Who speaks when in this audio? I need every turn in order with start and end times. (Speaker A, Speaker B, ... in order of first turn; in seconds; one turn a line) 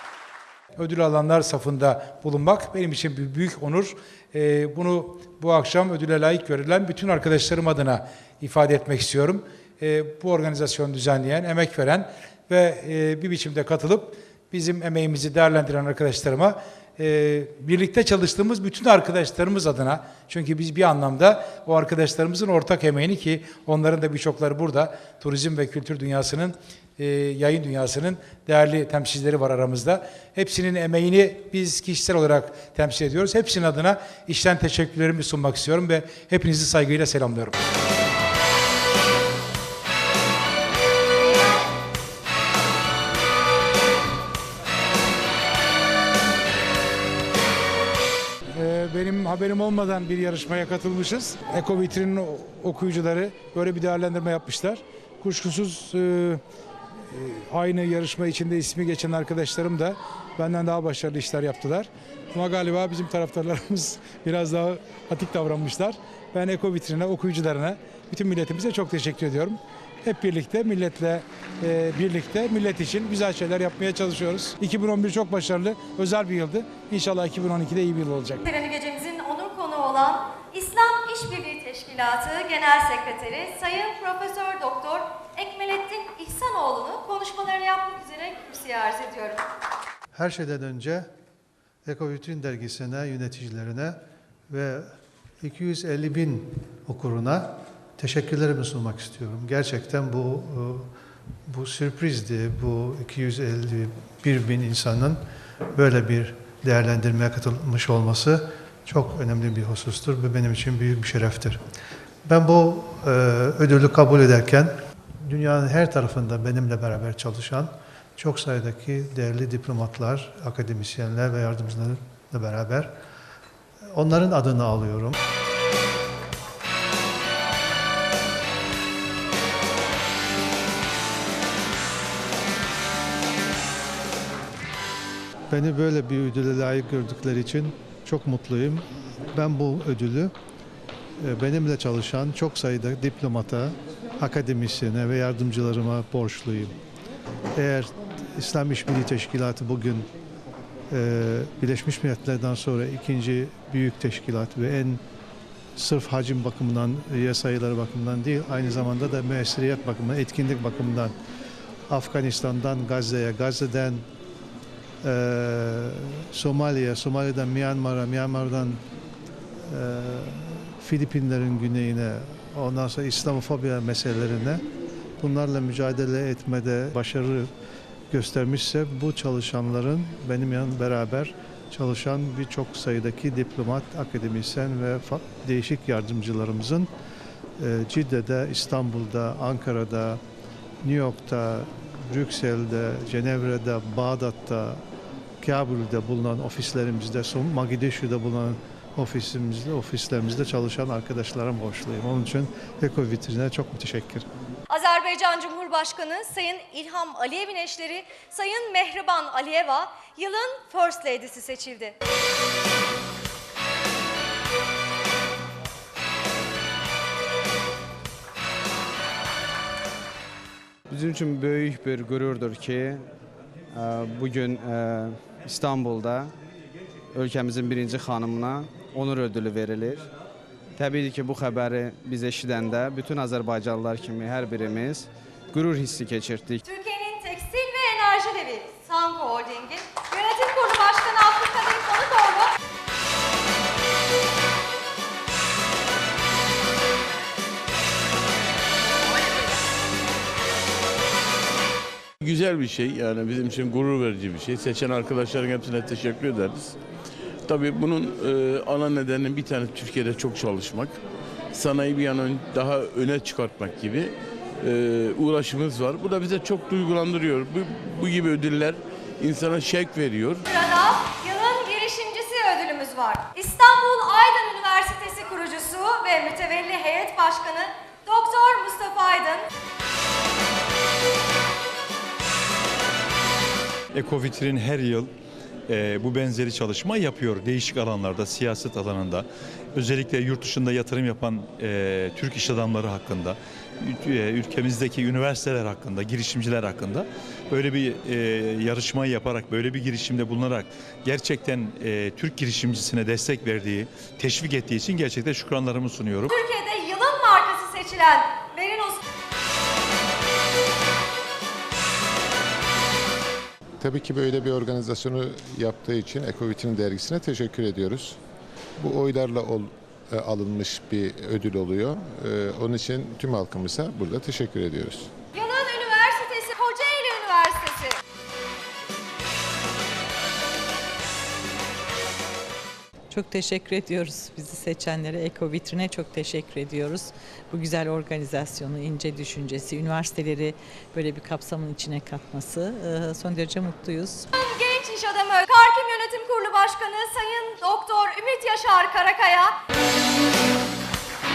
Speaker A: 0.8-37.5
Speaker B: 41.2-41.7
Speaker A: 48.5-56.4
Speaker A: 57.1-78.4
Speaker B: 78.4-89.4
Speaker C: 90.1-91.1
Speaker C: 91.8-100.9
Speaker C: 101.5-105.2
Speaker C: 105.7-111.6
Speaker C: 112.2-123.0
Speaker C: 123.9-125.2
Speaker C: 135.5-140.3
Speaker C: 141.2-146.8
Speaker C: 147.6-150.1
Speaker C: 150.9-155.0
Speaker C: 155.8-161.2
Speaker C: 161.9-164.1
Speaker C: 165.0-168.8
Speaker C: 169.6-174.7
Speaker C: 175.2-177.5
Speaker C: 178.1-186.9
Speaker C: 187.6-190.2
Speaker C: 190.8-194.8
Speaker C: 195.4-204.3
Speaker B: 204.7-211.9
Speaker D: 220.9-223.1
Speaker D: 223.7-226.3
Speaker D: 227.1-230.1
Speaker D: 230.8-236.6
Speaker B: 236.6-242.5
Speaker E: 252.2-256.8
Speaker E: 257.5-261.0
Speaker E: 261.5-270.4
Speaker B: 270.5-279.5
Speaker F: 283.9-285.1
Speaker F: 285.7-306.3
Speaker B: 306.3-309.0
Speaker G: 313.8-318.2
Speaker G: 318.8-325.1
Speaker B: 325.3-328.0
Speaker H: 333.1-344.3
Speaker B: 344.4-349.6